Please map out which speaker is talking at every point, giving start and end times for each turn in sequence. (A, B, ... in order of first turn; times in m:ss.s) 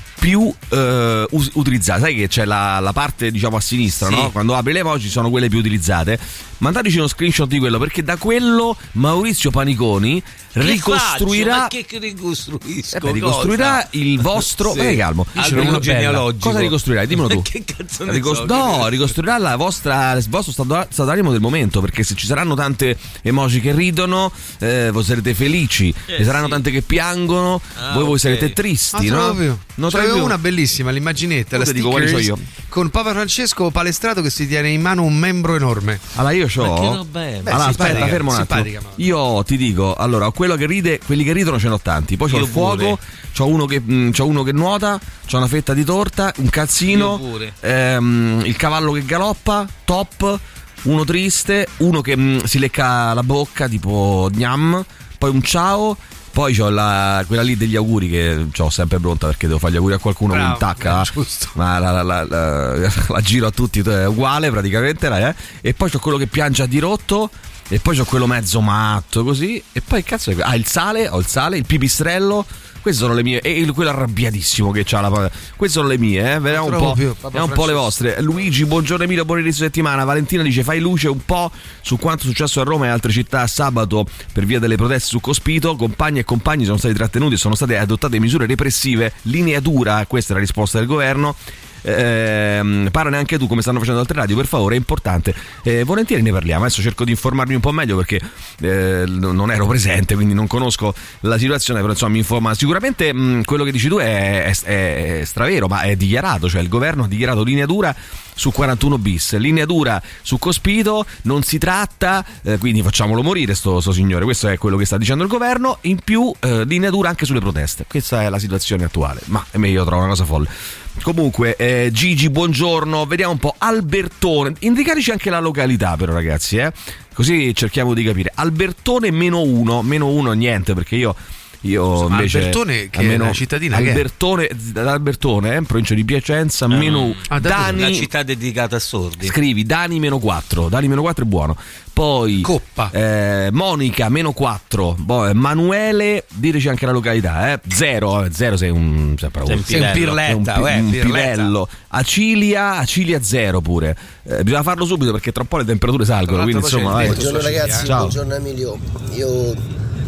0:00.2-0:11.7 A
0:04.0-0:04.3 B
0:10.6-0:13.8 C
0:12.9-0:15.9 A
0:14.4-0:19.1 C
0:15.4-0:16.3 B
0:16.4-0:17.5 A
0:18.0-0:30.4 A
0:26.1-0:26.6 C
0:27.8-0:28.6 C
0:28.9-0:36.0 B
0:31.5-0:32.5 A
0:36.2-2:18.1 A
0:36.6-0:38.2 C
0:37.5-0:39.0 B
0:42.3-0:43.0 C
0:46.9-0:47.5 C
1:00.3-1:01.6 B
1:16.5-1:18.0 B
2:12.0-2:14.0 B
2:16.7-2:19.4 C
2:17.3-2:17.8 B
2:19.2-2:37.3 A
2:22.4-2:22.9 B
2:29.5-2:30.2 C
2:29.7-2:31.6 B
2:36.3-2:38.0 B
2:36.9-2:39.7 D
2:37.8-2:38.2 A